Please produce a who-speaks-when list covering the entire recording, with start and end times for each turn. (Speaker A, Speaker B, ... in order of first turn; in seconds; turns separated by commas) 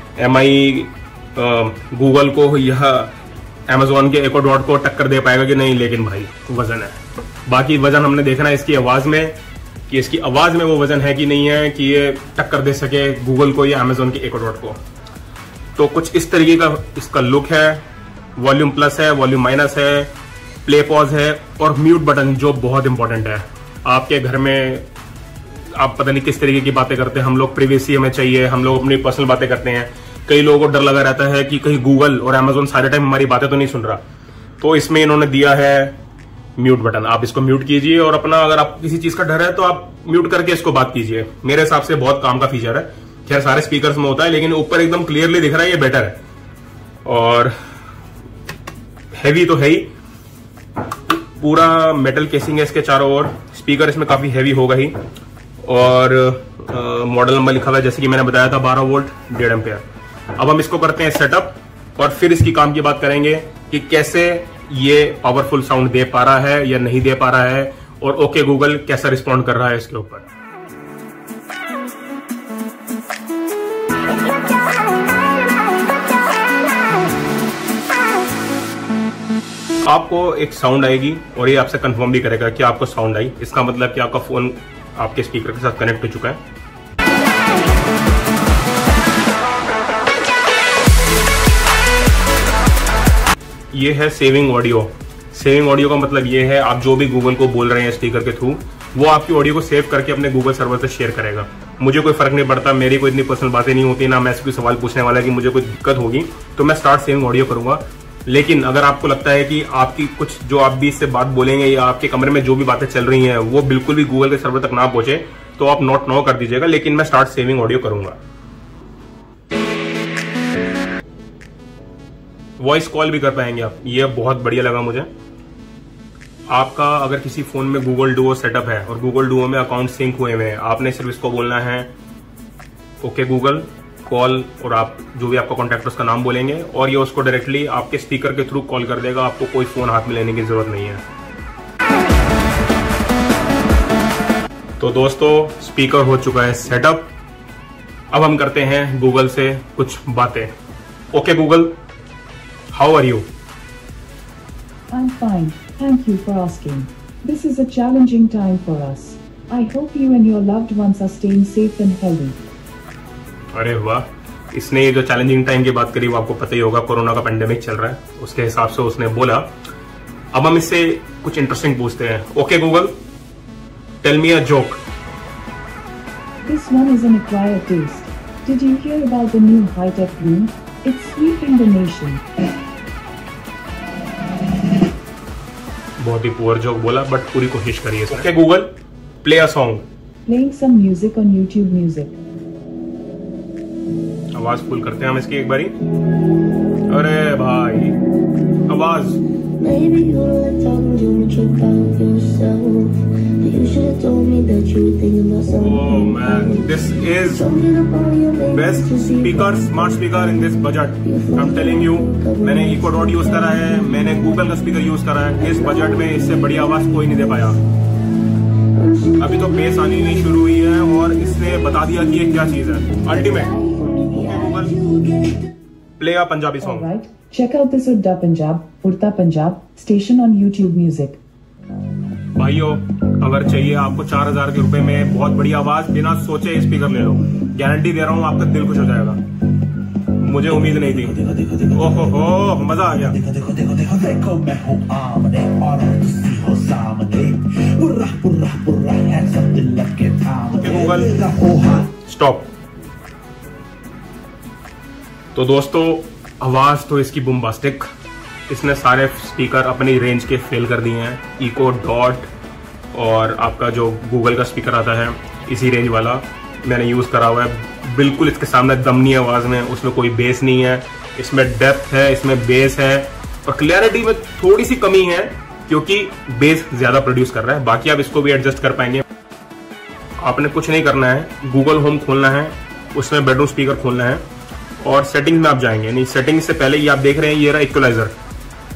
Speaker A: 0.2-3.1, Speaker A: 3.7-9.4, Speaker A: 9.9-14.8, Speaker A: 15.8-17.9, Speaker A: 18.4-20.1, Speaker A: 20.6-24.9, Speaker A: 25.8-34.0, Speaker A: 34.6-36.0, Speaker A: 36.6-46.2, Speaker A: 47.0-47.5, Speaker A: 49.1-49.9, Speaker A: 51.3-55.0, Speaker A: 55.6-59.8, Speaker A: 60.4-70.3, Speaker A: 79.8-86.4, Speaker A: 93.7-118.2, Speaker A: 122.6-125.1, Speaker A: 126.5-131.9, Speaker A: 133.0-141.0, Speaker A: 144.8-147.1, Speaker A: 148.1-150.5, Speaker A: 151.1-151.7, Speaker A: 152.7-153.3, Speaker B: 154.9-162.4, Speaker A: 163.5-169.5, Speaker A: 170.3-173.0, Speaker A: 174.0-174.8, Speaker B: 176.5-182.2, Speaker A: 186.0-188.7, Speaker A: 189.2-189.8, Speaker B: 190.3-192.2, Speaker A: 194.3-195.8, Speaker A: 196.9-198.0, Speaker A: 198.7-199.2, Speaker C: 199.6-206.2, Speaker A: 205.6-207.6, Speaker C: 207.5-208.5, Speaker A: 208.5-217.6, Speaker C: 211.9-212.4, Speaker C: 218.9-219.2, Speaker A: 219.2-225.1, Speaker C: 224.9-225.4, Speaker A: 226.0-226.9, Speaker B: 226.6-231.2, Speaker A: 232.4-239.2, Speaker A: 240.1-243.2, Speaker D: 243.2-251.7, Speaker A: 250.5-252.5, Speaker A: 255.3-257.9, Speaker A: 258.5-262.3, Speaker A: 262.9-279.1, Speaker A: 280.2-284.2, Speaker A: 284.8-288.1